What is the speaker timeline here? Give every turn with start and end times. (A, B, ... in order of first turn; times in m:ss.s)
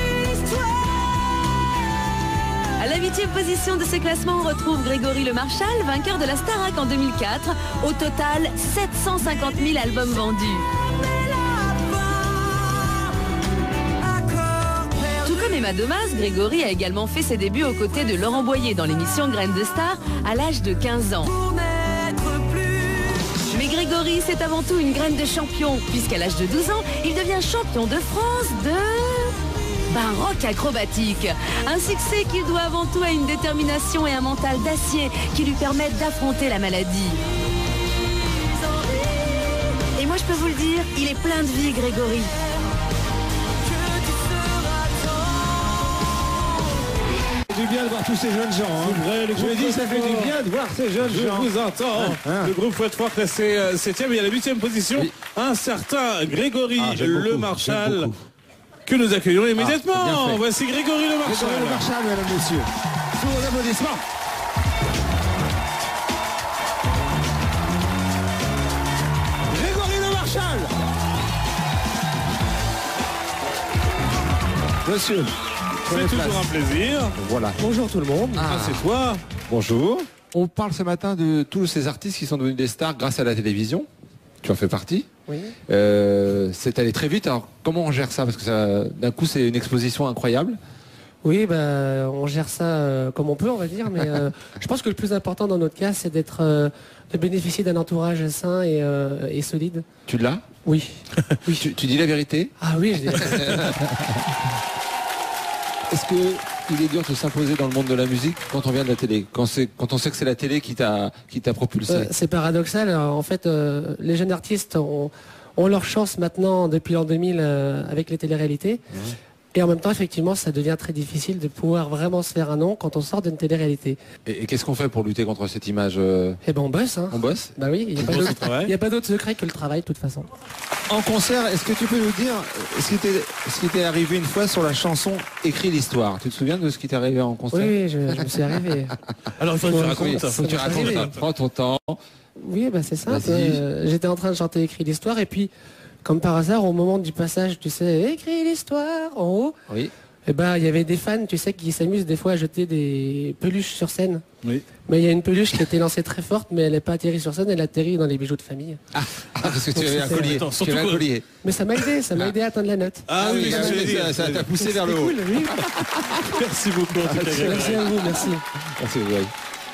0:02.8-0:10.7 A
0:15.0-0:37.2 A
0:39.8-0:42.3 A
0:47.5-0:52.5 B
0:48.8-0:50.3 C
0:51.0-0:58.1 C
0:56.8-0:58.2 B
0:58.8-1:01.9 C
0:59.6-1:00.4 B
1:01.2-1:04.0 B
1:09.5-1:10.7 B
1:14.8-1:15.3 B
1:15.8-1:16.5 B
1:15.8-1:17.2 C
1:17.2-1:17.6 B
1:17.6-1:18.4 D
1:18.3-1:18.8 B
1:18.4-1:19.2 C
1:19.5-1:23.9 B
1:24.4-1:25.1 B
1:25.3-1:25.6 D
1:25.7-1:30.6 B
1:31.2-1:39.9 D
1:40.1-1:40.4 B
1:40.6-1:41.7 D
1:41.5-1:43.9 B
1:42.6-1:43.8 D
1:45.9-1:52.1 B
1:51.9-1:58.8 D
1:59.5-2:04.0 D
2:04.2-2:06.4 B
2:06.4-2:10.3 D
2:07.1-2:08.3 B
2:08.0-2:08.7 C
2:10.9-2:18.8 B
2:17.5-2:19.0 D
2:19.4-2:21.2 C
2:19.6-2:21.1 D
2:19.7-2:22.0 B
2:22.4-2:25.5 D
2:23.0-2:23.6 B
2:26.0-2:29.6 D
2:30.2-2:34.2 D
2:34.9-2:38.8 D
2:38.9-2:41.3 B
2:39.5-2:40.4 D
2:40.1-2:41.0 C
2:41.4-2:45.7 D
2:43.0-2:44.4 C
2:43.1-2:46.2 B
2:46.2-2:47.8 C
2:47.0-2:48.3 B
2:47.3-2:48.4 D
2:48.8-2:49.3 B